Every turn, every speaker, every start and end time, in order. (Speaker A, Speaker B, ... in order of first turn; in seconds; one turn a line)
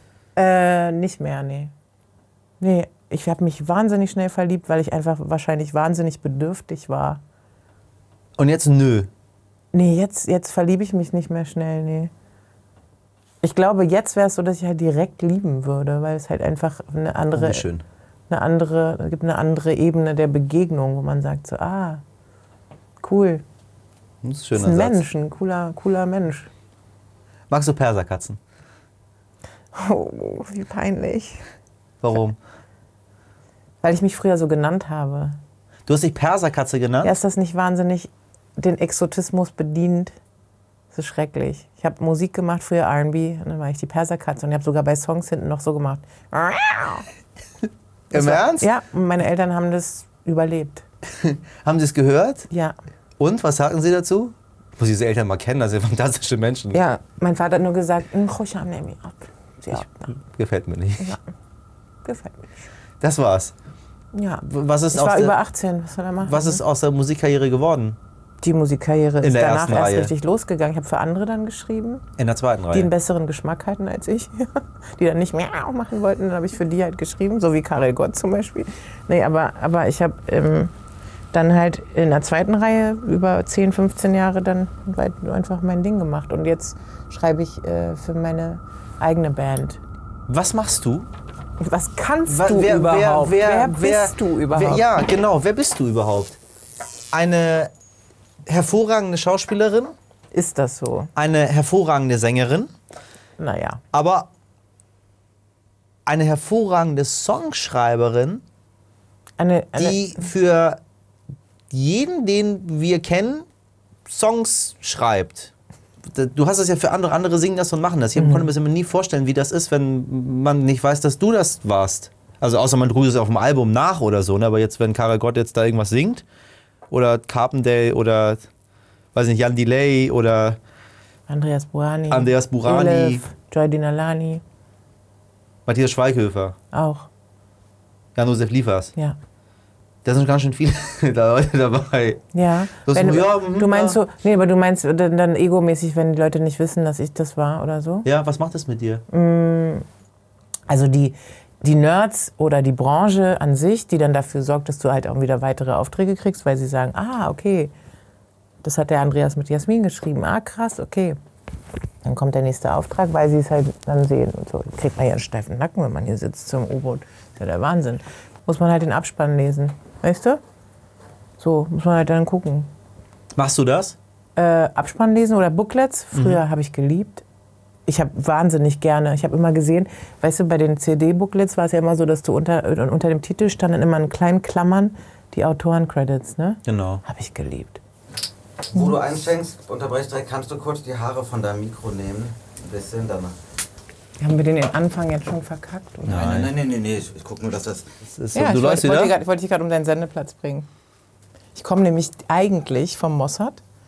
Speaker A: 0.3-1.7
Speaker A: 2.6-7.2
Speaker B: 8.4-9.1
Speaker A: 9.7-12.1
Speaker A: 13.4-17.7
Speaker B: 17.3-17.8
Speaker A: 18.3-22.0
Speaker A: 23.0-23.4
Speaker B: 24.2-25.0
Speaker A: 24.5-26.5
Speaker B: 27.5-28.4
Speaker A: 29.7-31.4
Speaker B: 32.0-32.4
Speaker A: 33.8-35.4
Speaker B: 35.9-37.1
Speaker A: 37.0-40.1
Speaker A: 40.9-47.1
Speaker B: 48.1-48.7
Speaker A: 48.1-50.8
Speaker B: 51.2-52.5
Speaker A: 52.5-52.8
Speaker B: 53.2-56.8
Speaker A: 56.7-60.1
Speaker B: 59.8-61.1
Speaker A: 62.0-62.5
Speaker B: 63.0-63.5
Speaker A: 64.1-66.6
Speaker B: 64.5-65.4
Speaker B: 66.2-68.0
Speaker A: 68.4-72.0
Speaker B: 69.2-70.1
Speaker B: 72.2-72.9
Speaker A: 72.7-80.7
Speaker A: 81.3-89.8
Speaker B: 90.3-91.1
Speaker A: 91.6-94.8
Speaker B: 92.2-96.4
Speaker B: 97.1-97.7
Speaker B: 98.5-99.9
Speaker A: 100.3-101.1
Speaker B: 101.2-102.7
Speaker A: 103.4-103.8
Speaker B: 103.9-104.3
Speaker B: 106.0-108.4
Speaker A: 109.4-110.3
Speaker B: 109.8-110.8
Speaker B: 111.7-113.5
Speaker B: 114.1-115.5
Speaker B: 116.0-126.2
Speaker A: 118.2-118.5
Speaker B: 126.9-128.5
Speaker B: 129.1-130.6
Speaker A: 131.3-134.4
Speaker B: 132.1-133.2
Speaker B: 135.7-136.6
Speaker A: 136.7-137.1
Speaker B: 138.1-138.9
Speaker B: 140.0-142.2
Speaker A: 142.3-148.1
Speaker B: 142.8-144.0
Speaker B: 148.0-149.0
Speaker A: 149.1-149.8
Speaker A: 150.7-157.7
Speaker A: 158.6-161.2
Speaker A: 162.0-170.4
Speaker A: 171.4-172.7
Speaker B: 173.3-174.0
Speaker A: 174.3-177.2
Speaker B: 176.1-176.4
Speaker A: 177.9-187.8
Speaker B: 186.7-187.0
Speaker C: 188.7-193.3
Speaker A: 194.2-196.4
Speaker B: 196.1-196.5
Speaker C: 196.1-197.9
Speaker B: 198.1-199.2
Speaker A: 198.3-200.7
Speaker A: 201.5-203.6